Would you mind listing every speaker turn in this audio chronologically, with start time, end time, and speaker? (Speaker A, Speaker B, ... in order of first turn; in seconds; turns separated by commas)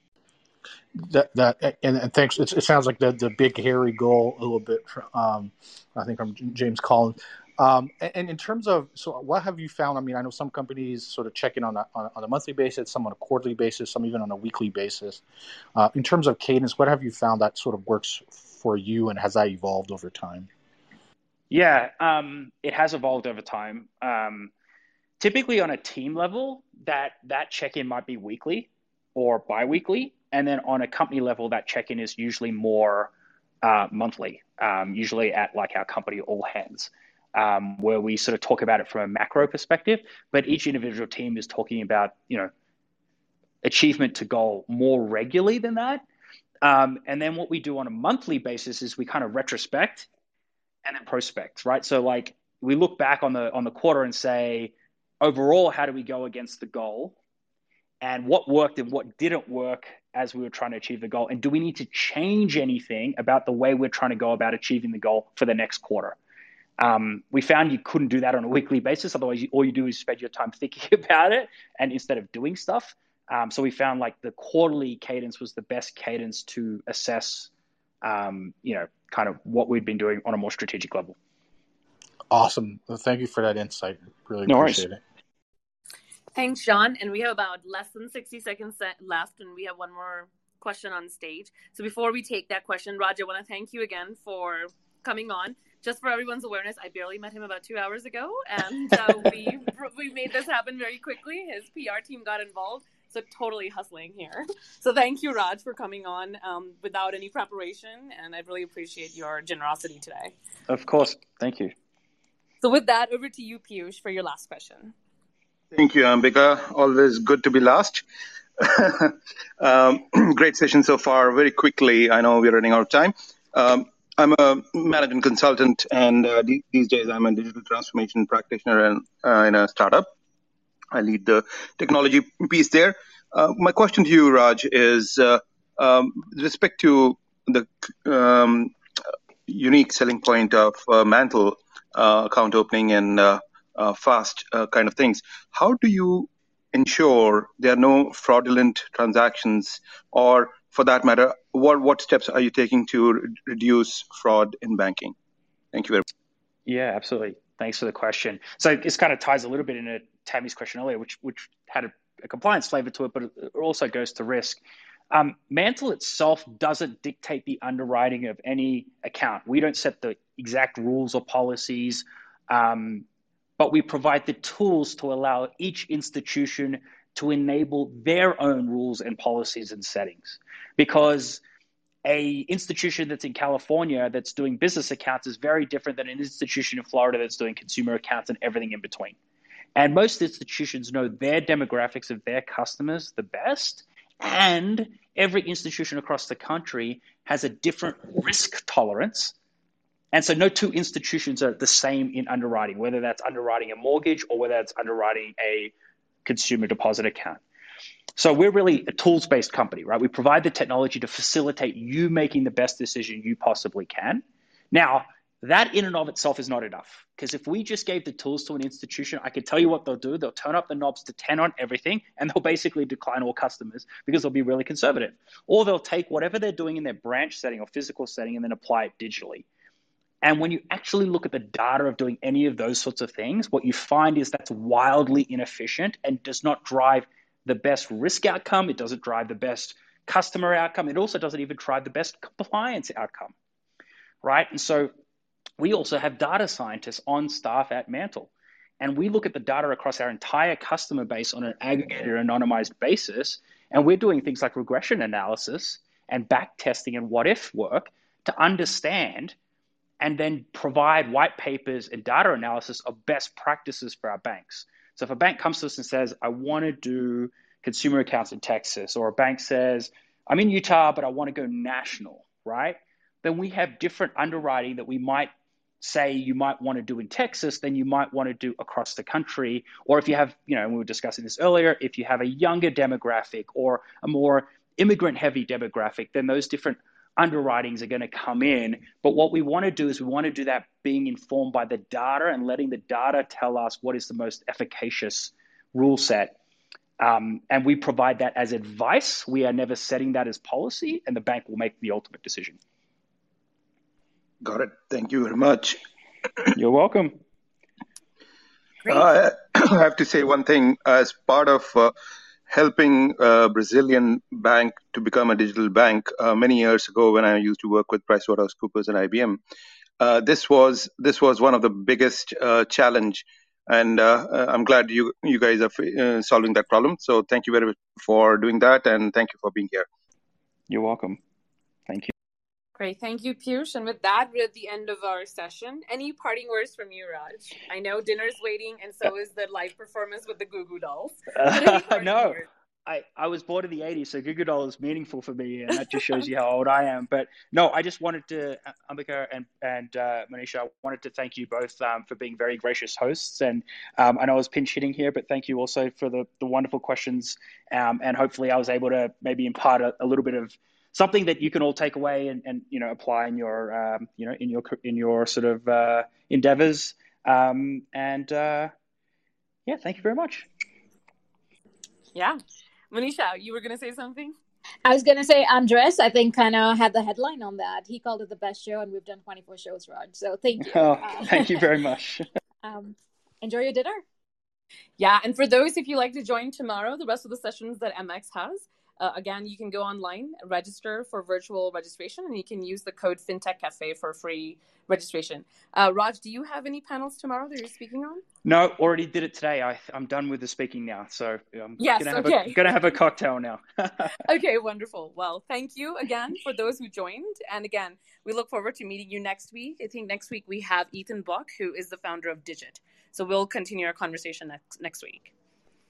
Speaker A: 0.9-15.2, Speaker A: 15.7-20.5, Speaker B: 21.5-24.5, Speaker B: 25.2-33.1, Speaker B: 33.6-42.5, Speaker B: 43.6-46.0, Speaker B: 46.6-50.1, Speaker B: 50.8-57.1, Speaker B: 58.0-66.2, Speaker B: 66.8-77.5, Speaker B: 78.0-81.1, Speaker A: 82.3-85.0, Speaker B: 84.5-84.8, Speaker C: 86.3-110.3, Speaker B: 110.7-111.7, Speaker C: 112.6-114.9, Speaker D: 115.7-118.0, Speaker D: 118.6-130.1, Speaker D: 130.9-138.7, Speaker D: 139.5-155.1, Speaker D: 155.7-156.0, Speaker B: 156.7-164.6, Speaker B: 165.1-173.1, Speaker B: 173.6-181.4, Speaker B: 182.0-189.2, Speaker B: 189.8-199.3, Speaker B: 200.1-205.7, Speaker B: 206.2-207.4, Speaker B: 208.2-229.4, Speaker B: 230.2-243.3, Speaker B: 244.2-244.9, Speaker B: 245.6-259.3, Speaker B: 260.0-296.4, Speaker B: 297.0-302.6, Speaker D: 304.4-305.8, Speaker B: 306.6-307.2, Speaker D: 308.8-311.9, Speaker D: 312.5-319.4, Speaker D: 320.0-329.9, Speaker B: 330.7-331.2, Speaker C: 332.8-342.5, Speaker B: 341.3-368.7, Speaker B: 369.7-370.5, Speaker C: 372.1-372.4, Speaker C: 372.9-374.3, Speaker E: 374.8-381.7, Speaker B: 380.6-382.2, Speaker E: 382.6-384.0, Speaker C: 385.0-398.2, Speaker B: 398.4-404.2, Speaker C: 401.8-402.6, Speaker C: 404.2-415.3